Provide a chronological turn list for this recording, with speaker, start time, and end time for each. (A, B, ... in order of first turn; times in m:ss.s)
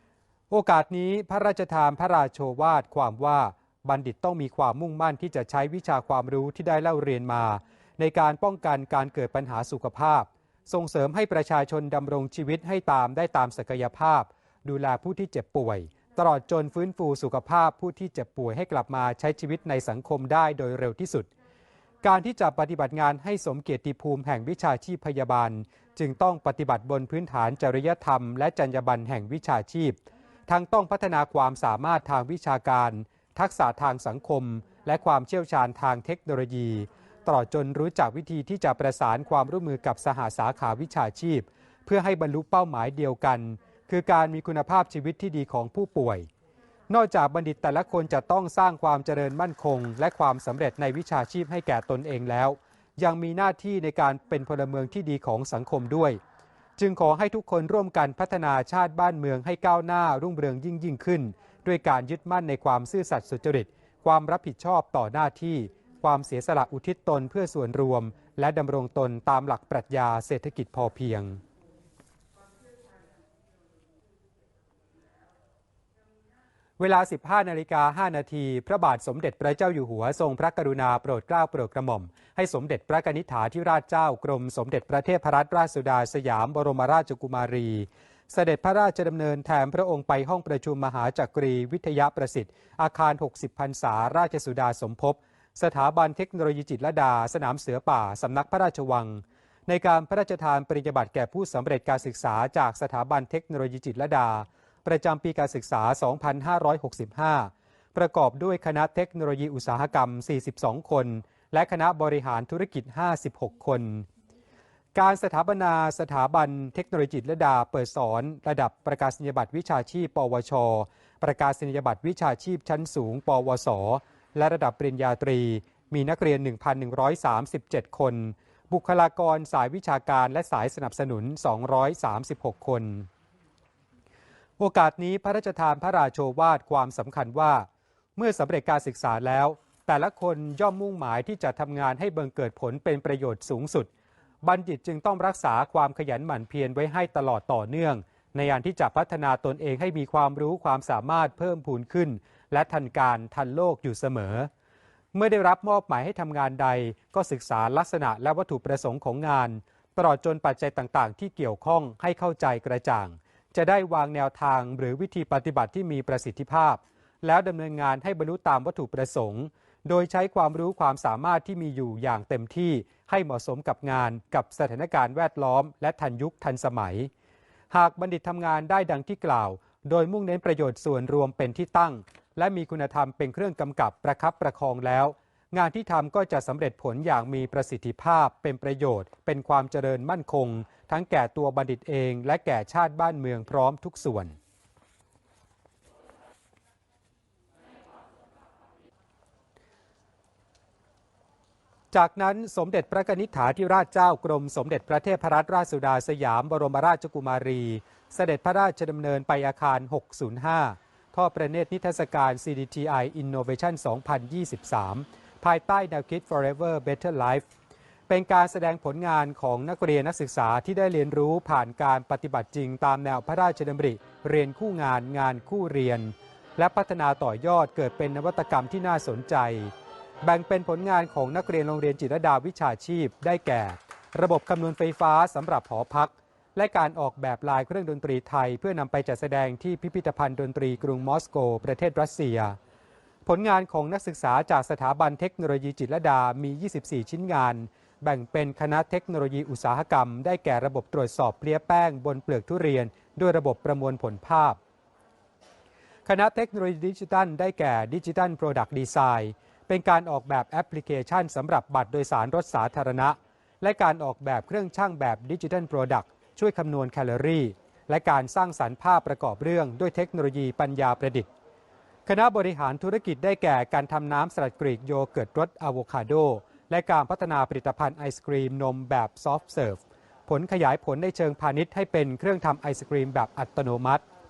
0:00.5-0:21.3 A
0:22.0-0:46.3 A
0:46.9-0:56.2 A
0:56.8-1:11.4 A
1:16.8-1:54.1 A
1:54.9-2:13.1 A
2:14.6-2:23.9 A
2:24.4-2:34.5 A
2:35.1-2:57.1 A
2:57.7-3:14.3 A
3:21.9-3:37.4 A
3:38.1-4:02.6 A
4:03.2-4:14.6 A
4:16.0-4:31.3 A
4:32.0-4:44.0 A